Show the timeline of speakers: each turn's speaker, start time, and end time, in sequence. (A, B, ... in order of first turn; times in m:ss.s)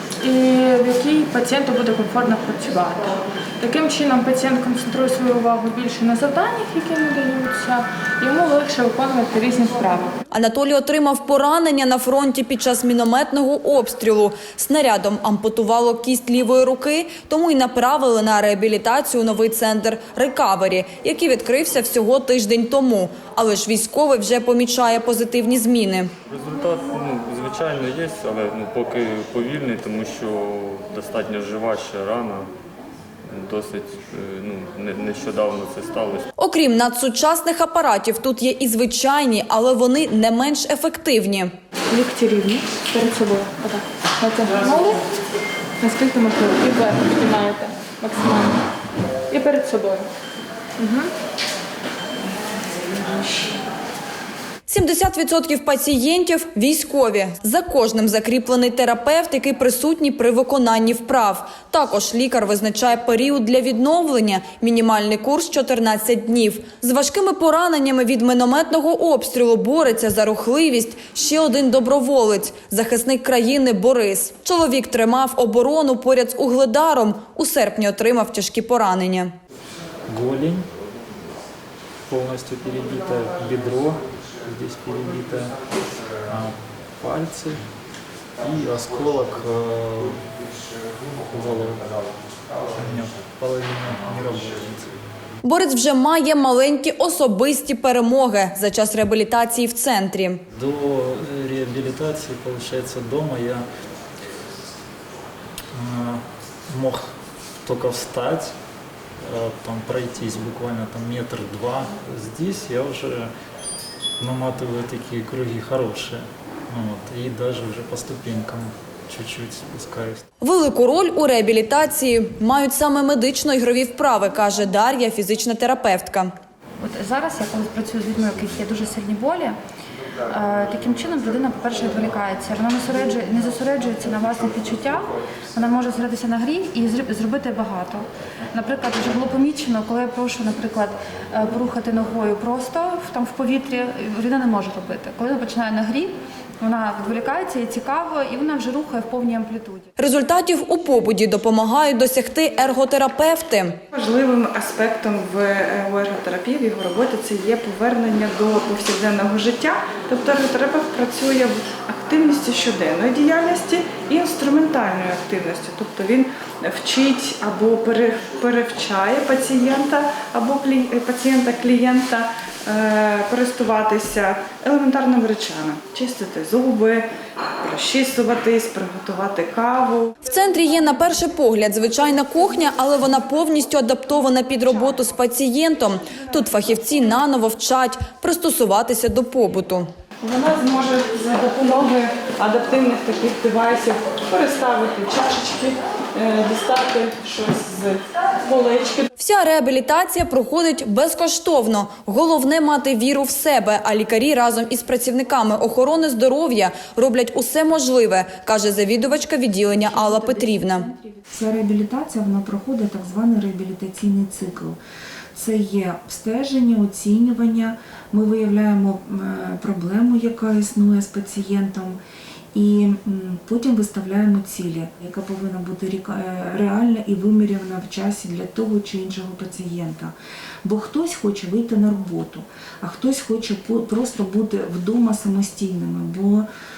0:00.2-0:10.1 A
0:10.3-0:26.1 B
0:26.3-0:32.5 C
0:33.3-0:36.3 C
0:36.4-0:41.5 B
0:41.9-0:45.0 A
0:45.8-0:48.6 A
0:49.3-0:50.1 A
0:50.8-0:51.1 A
0:54.7-1:19.3 B
1:20.1-1:20.6 D
1:22.1-1:25.6 D
1:26.2-1:27.6 D
1:28.4-1:30.3 D
1:31.1-1:31.9 D
1:32.5-1:35.0 D
1:35.4-1:40.4 B
1:40.5-1:43.6 D
1:45.7-1:47.1 D
1:47.6-1:48.5 D
1:49.2-1:53.3 D
1:54.2-2:00.2 D
2:00.4-2:06.3 B
2:06.8-2:09.6 E
2:10.2-2:29.9 E
2:30.0-2:33.8 B
2:33.9-2:57.1 F
2:57.6-3:00.1 F
3:00.2-3:09.9 B
3:10.2-3:19.1 F
3:19.2-3:30.9 B
3:29.8-3:34.8 G
3:35.3-3:42.0 G
3:42.5-3:50.1 G
3:50.6-3:56.4 G